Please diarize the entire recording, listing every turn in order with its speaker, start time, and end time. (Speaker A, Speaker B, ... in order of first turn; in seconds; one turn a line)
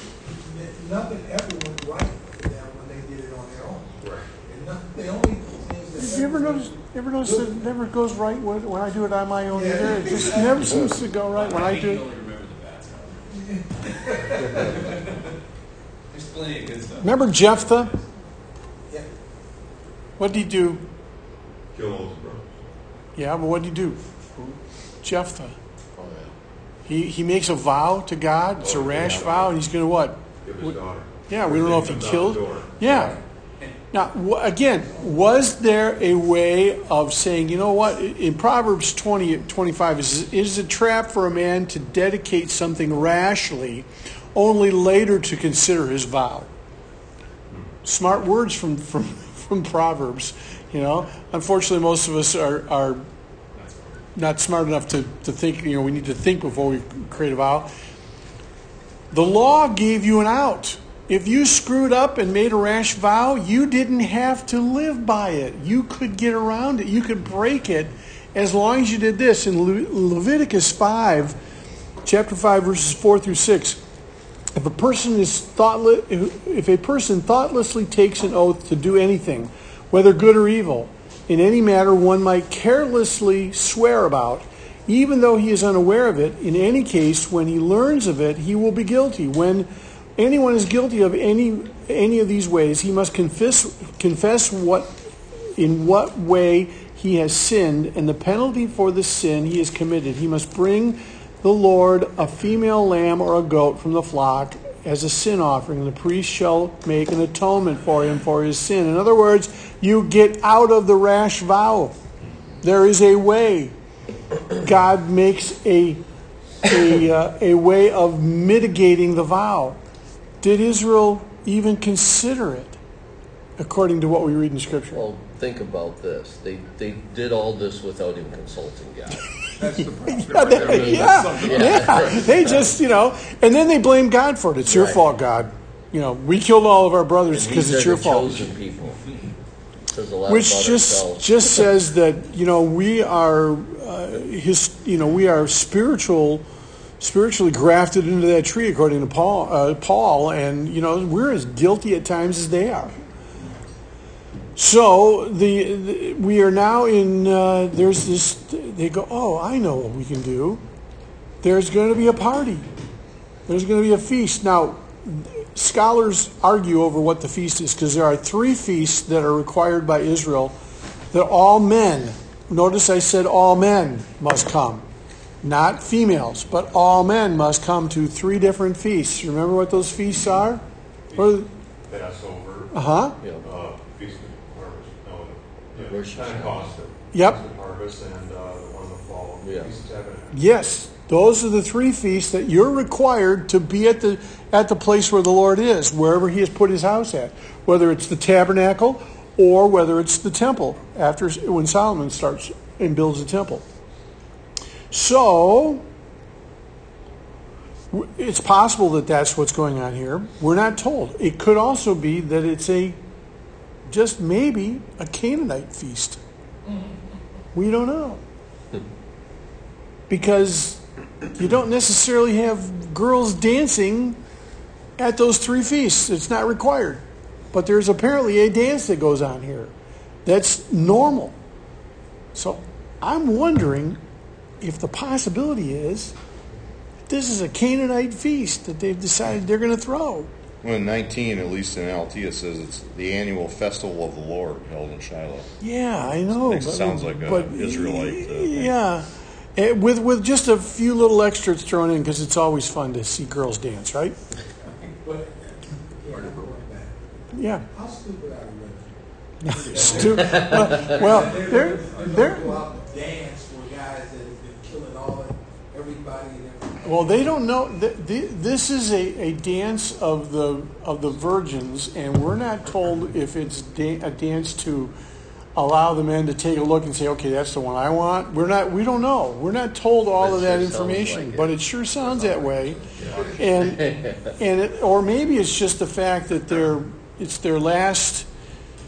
Speaker A: 0.2-3.9
Speaker B: 4.0-4.3
Speaker A: 4.4-7.7
Speaker C: 6.0-12.0
Speaker A: 9.5-10.8
Speaker D: 10.1-13.4
Speaker A: 13.3-14.7
Speaker D: 14.3-15.3
Speaker D: 16.1-18.1
Speaker C: 17.0-17.9
Speaker C: 20.2-20.8
Speaker B: 21.7-22.5
Speaker C: 23.2-24.5
Speaker C: 25.0-25.6
Speaker E: 25.9-26.3
Speaker C: 26.9-30.8
Speaker B: 28.6-29.6
Speaker B: 30.4-33.1
Speaker C: 31.3-33.2
Speaker C: 33.9-46.5
Speaker C: 47.8-53.0
Speaker D: 53.5-54.0
Speaker C: 54.1-57.7
Speaker C: 59.1-71.3
Speaker C: 72.0-73.8
Speaker C: 74.5-95.0
Speaker C: 95.5-112.0
Speaker C: 112.6-113.7
Speaker C: 114.6-116.0
Speaker C: 116.6-119.8
Speaker C: 120.4-122.8
Speaker C: 123.6-125.0
Speaker E: 124.9-129.3
Speaker F: 129.6-132.5
Speaker C: 129.8-138.5
Speaker E: 130.6-132.7
Speaker E: 134.7-135.0
Speaker E: 137.3-139.0
Speaker E: 139.9-141.6
Speaker C: 140.3-146.4
Speaker C: 147.0-152.9
Speaker C: 154.6-160.6
Speaker C: 161.4-162.7
Speaker C: 163.5-170.6
Speaker C: 171.1-174.8
Speaker C: 175.4-180.6
Speaker B: 181.1-182.8
Speaker C: 181.2-181.5
Speaker C: 182.7-183.1
Speaker B: 183.4-190.3
Speaker E: 185.7-186.7
Speaker C: 187.1-187.4
Speaker E: 189.4-189.7
Speaker C: 190.3-203.6
Speaker C: 204.9-205.8
Speaker C: 207.9-213.0
Speaker C: 213.9-216.2
Speaker C: 217.5-218.2
Speaker C: 220.1-220.8
Speaker C: 221.3-224.2
Speaker C: 225.0-229.7
Speaker C: 230.2-231.3
Speaker C: 232.3-234.0
Speaker C: 234.6-236.1
Speaker C: 237.1-240.3
Speaker G: 240.6-245.5
Speaker C: 245.6-254.2
Speaker G: 246.2-248.7
Speaker A: 255.0-255.4
Speaker A: 256.0-257.0
Speaker C: 257.3-257.6
Speaker A: 257.7-259.0
Speaker C: 259.4-262.6
Speaker A: 259.6-267.2
Speaker D: 259.9-260.1
Speaker C: 266.8-274.9
Speaker C: 275.5-282.8
Speaker E: 280.2-281.5
Speaker D: 282.1-283.4
Speaker B: 283.0-283.3
Speaker E: 283.1-284.2
Speaker C: 283.3-288.3